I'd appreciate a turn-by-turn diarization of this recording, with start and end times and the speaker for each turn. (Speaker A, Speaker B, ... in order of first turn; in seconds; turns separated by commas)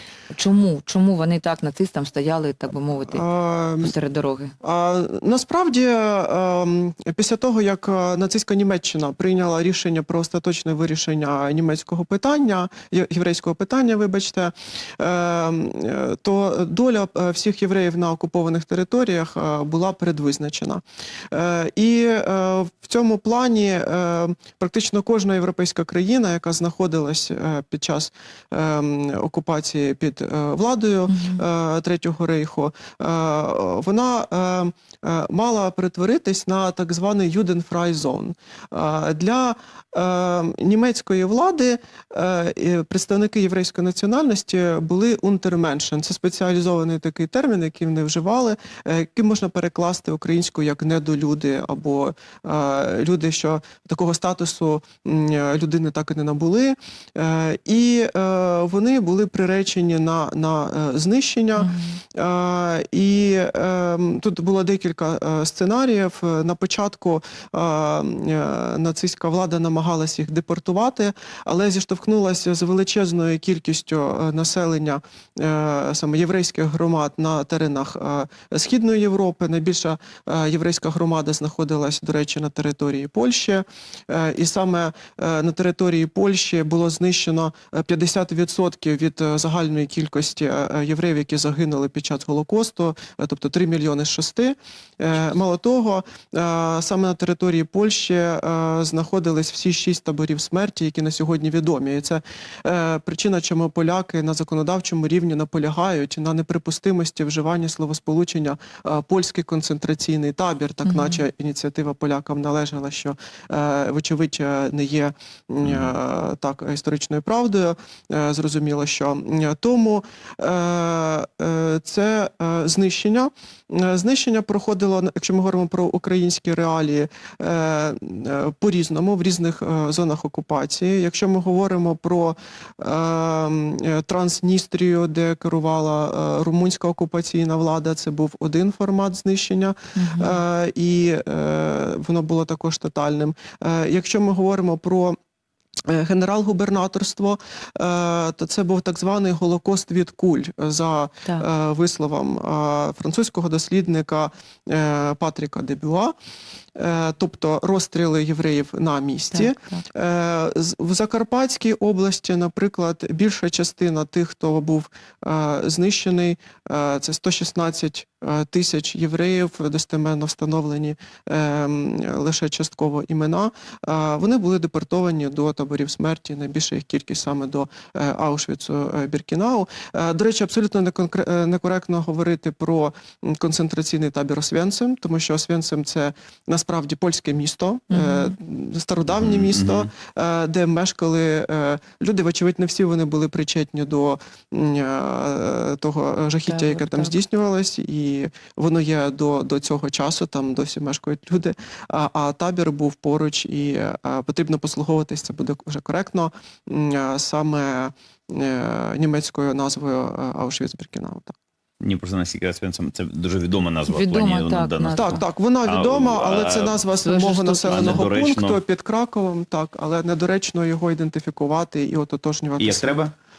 Speaker A: 0.3-3.2, Speaker B: 3.1-3.9, Speaker A: 3.8-4.5, Speaker B: 4.6-145.2, Speaker A: 31.1-31.4, Speaker A: 61.6-62.0, Speaker A: 110.8-111.2, Speaker C: 115.6-115.9, Speaker A: 139.9-140.4, Speaker B: 145.9-156.1, Speaker B: 156.8-211.3, Speaker A: 159.3-159.8, Speaker A: 187.9-188.3, Speaker C: 189.1-189.9, Speaker A: 196.4-197.2, Speaker C: 211.8-216.8, Speaker A: 213.9-215.2, Speaker B: 215.0-223.1, Speaker A: 217.0-218.1, Speaker C: 217.7-218.6, Speaker C: 222.6-223.1